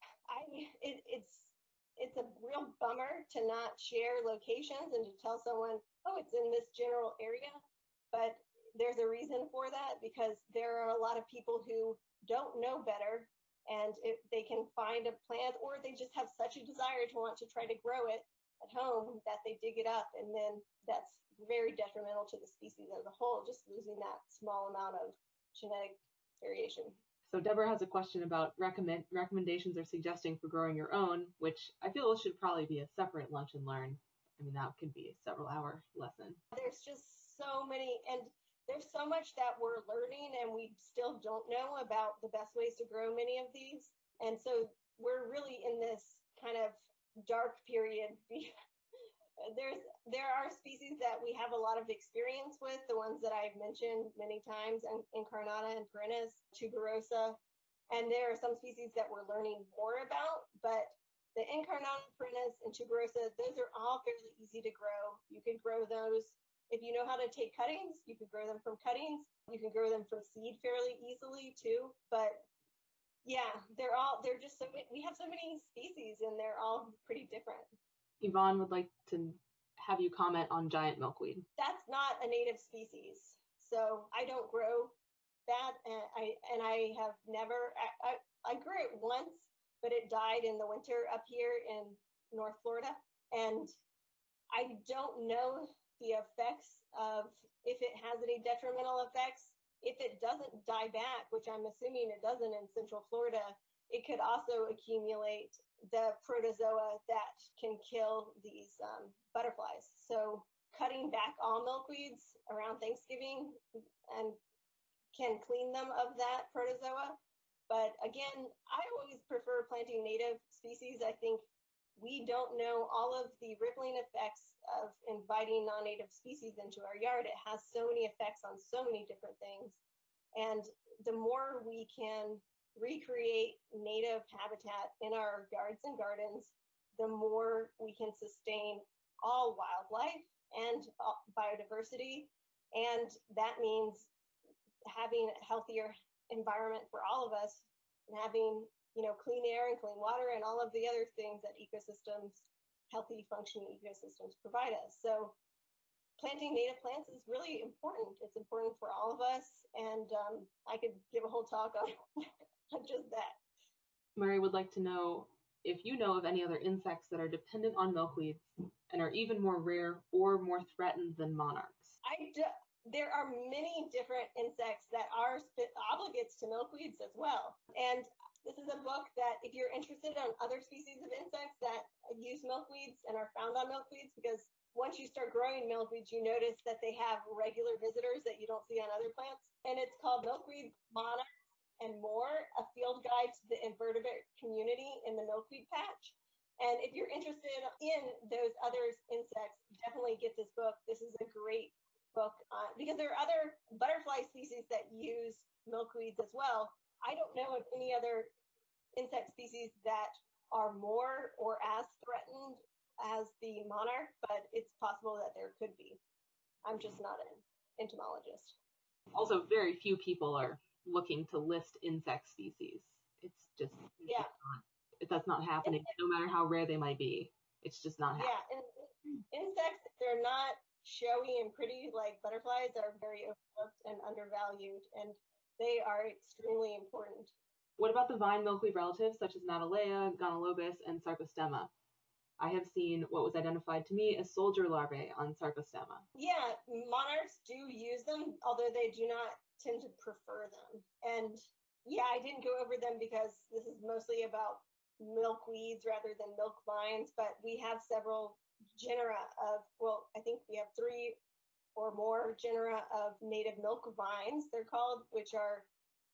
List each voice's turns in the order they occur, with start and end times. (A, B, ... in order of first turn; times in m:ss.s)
0:00.3-0:27.0 A
0:27.3-0:36.4 B
0:36.5-0:48.5 A
0:49.4-0:57.4 A
0:57.9-1:12.5 A
1:13.2-1:17.7 A
1:18.2-1:21.4 B
1:21.6-1:25.0 A
1:25.5-1:33.7 A
1:34.5-1:54.4 A
1:55.1-2:09.8 A
2:10.4-2:24.1 A
2:24.9-2:35.4 A
2:36.2-2:43.4 A
2:44.2-2:52.0 B
2:52.0-3:11.2 A
3:11.8-3:28.3 A
3:29.0-3:36.0 A
3:36.6-3:38.6 A
3:39.1-3:48.4 B
3:48.2-3:57.3 A
3:57.8-4:01.7 B
4:02.4-4:06.1 B
4:06.2-4:21.2 A
4:21.8-4:25.7 A